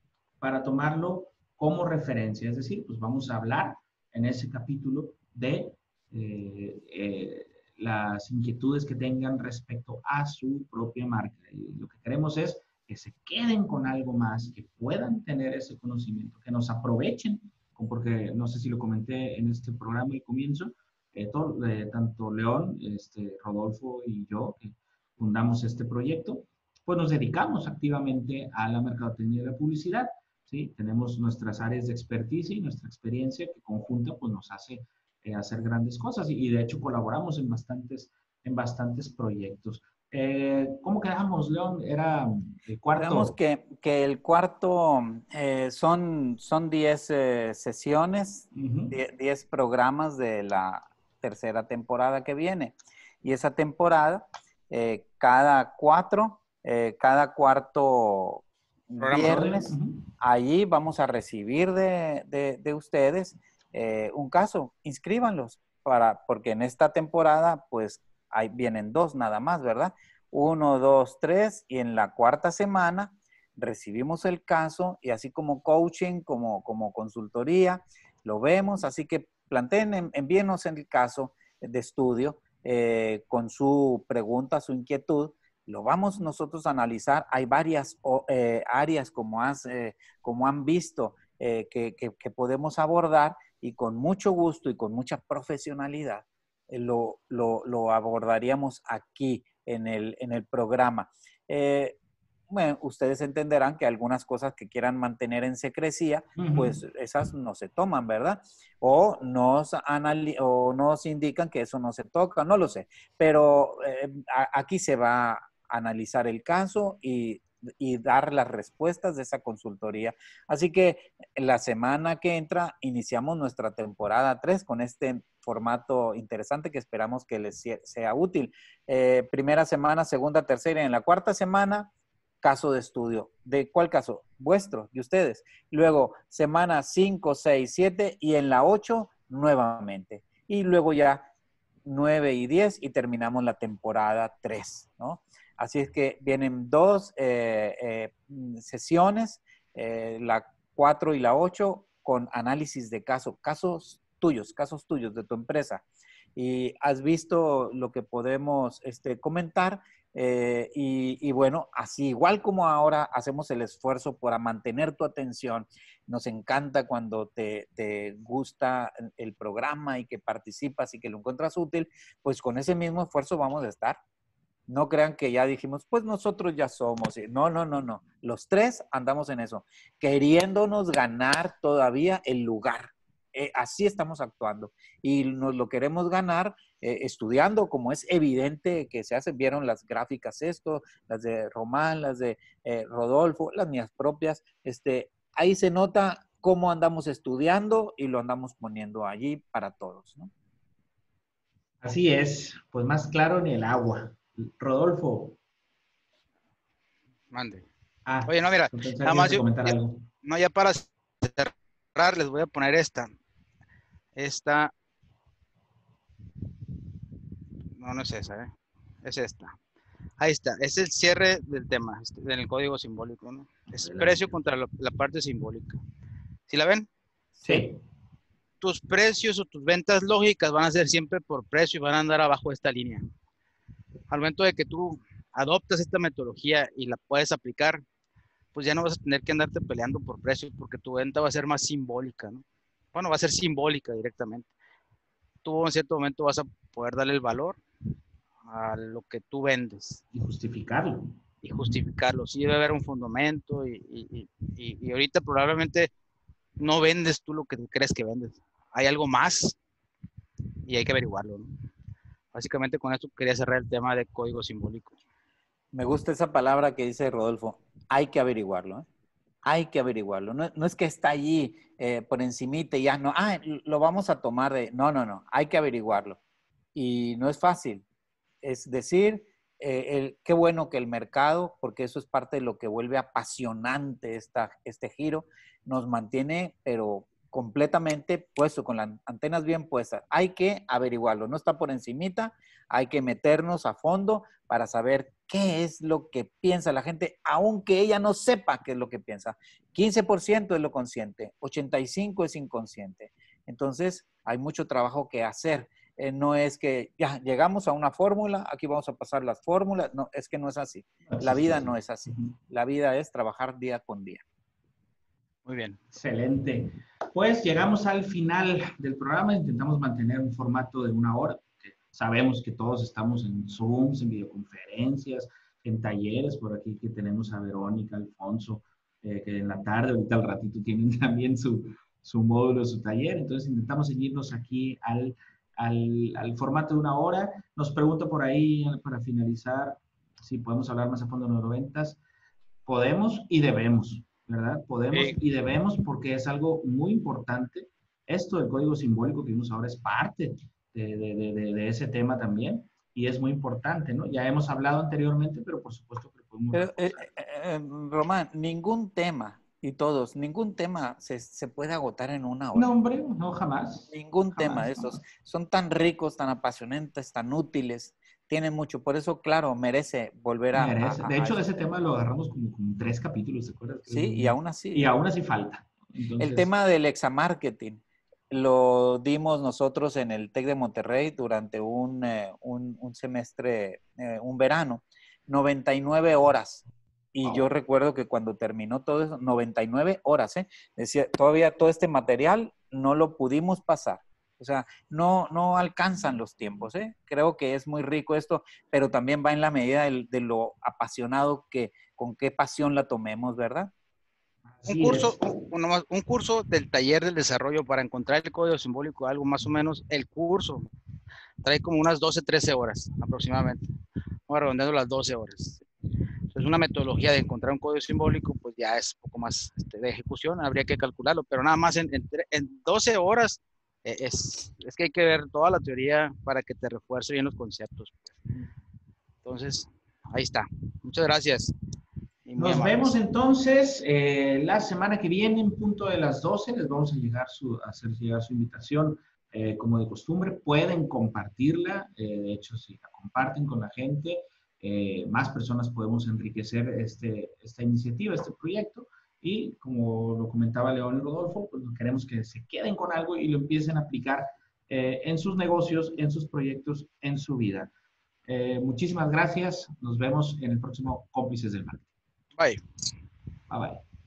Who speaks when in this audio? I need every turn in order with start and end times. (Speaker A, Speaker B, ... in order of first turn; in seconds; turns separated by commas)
Speaker A: 0.4-43.4, Speaker B: 43.0-102.0, Speaker A: 48.5-49.0, Speaker C: 59.0-59.4, Speaker A: 59.1-60.0, Speaker B: 102.5-131.9, Speaker A: 106.3-106.8, Speaker B: 132.4-141.3, Speaker B: 141.8-155.8, Speaker B: 156.3-174.0, Speaker B: 174.7-200.3, Speaker A: 201.8-205.4, Speaker C: 207.3-207.7, Speaker A: 208.1-210.0, Speaker C: 208.3-213.1, Speaker C: 214.2-214.7, Speaker C: 217.8-218.5, Speaker C: 219.0-219.5, Speaker C: 220.2-225.8, Speaker A: 223.7-224.3, Speaker C: 226.5-226.9, Speaker A: 227.4-227.8, Speaker C: 228.6-233.0, Speaker C: 234.1-237.8, Speaker C: 238.5-244.5, Speaker C: 245.4-247.6, Speaker C: 248.4-250.0, Speaker A: 250.1-251.2, Speaker C: 251.4-255.9, Speaker C: 256.6-259.6, Speaker C: 260.7-261.5, Speaker C: 262.3-265.0, Speaker B: 265.7-268.9, Speaker B: 269.4-276.2, Speaker B: 276.7-277.8, Speaker B: 278.4-314.2, Speaker A: 311.1-312.3, Speaker C: 315.4-315.8, Speaker A: 315.9-342.0, Speaker A: 342.6-357.1, Speaker B: 356.5-362.7, Speaker A: 362.5-365.0, Speaker B: 363.9-371.4, Speaker A: 370.5-376.5, Speaker B: 373.9-374.9, Speaker B: 376.2-403.7, Speaker A: 404.5-405.2, Speaker C: 404.7-410.7, Speaker C: 411.4-413.7, Speaker C: 414.3-415.6, Speaker C: 416.3-428.2, Speaker C: 429.2-431.5, Speaker C: 432.2-432.9, Speaker A: 432.4-457.7, Speaker A: 458.3-461.9, Speaker C: 462.4-462.6, Speaker A: 463.5-463.8